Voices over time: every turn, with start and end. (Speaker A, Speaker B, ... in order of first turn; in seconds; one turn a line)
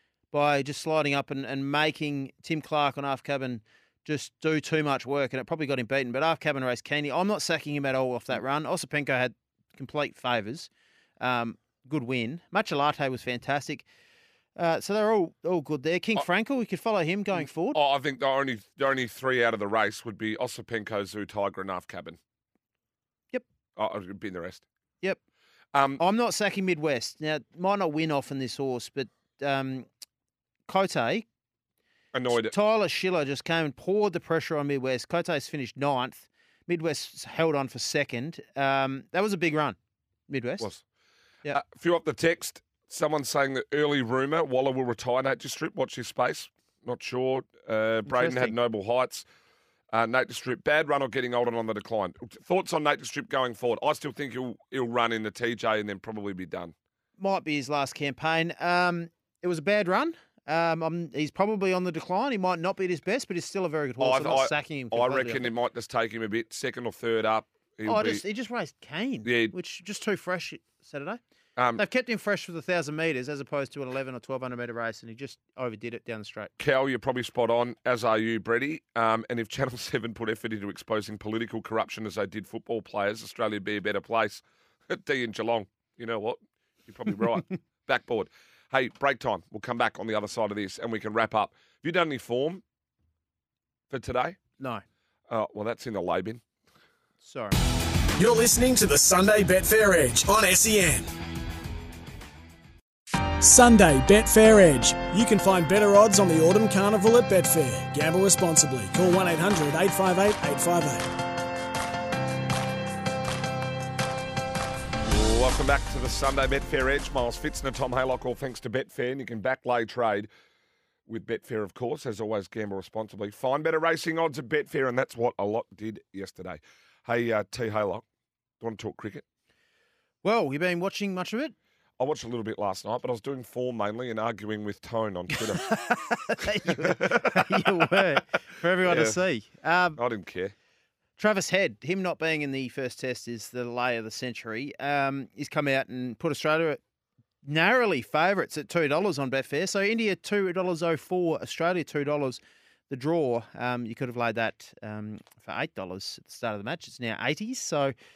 Speaker A: 0.3-13.9
Speaker A: 14.6-17.8
Speaker B: 17.4-22.2
Speaker B: 23.8-24.6
Speaker B: 25.7-26.0
Speaker A: 26.0-29.9
Speaker A: 30.7-31.2
Speaker B: 32.1-32.5
Speaker A: 32.3-39.8
Speaker A: 40.3-40.7
Speaker B: 41.5-49.2
Speaker A: 48.0-48.5
Speaker B: 49.9-56.7
Speaker A: 57.2-65.5
Speaker B: 64.0-68.2
Speaker A: 67.8-71.2
Speaker B: 69.2-69.5
Speaker B: 71.6-71.8
Speaker A: 71.8-76.5
Speaker B: 76.6-92.6
Speaker B: 93.9-94.4
Speaker B: 95.3-96.4
Speaker A: 97.2-97.6
Speaker C: 98.2-101.1
Speaker C: 103.4-111.1
Speaker B: 115.0-120.3
Speaker B: 121.1-128.0
Speaker B: 128.6-129.2
Speaker A: 130.2-131.5
Speaker B: 132.0-135.7
Speaker A: 135.3-140.0
Speaker B: 136.6-138.0
Speaker B: 138.8-139.2
Speaker B: 140.0-140.5
Speaker A: 141.2-146.8
Speaker A: 147.4-157.9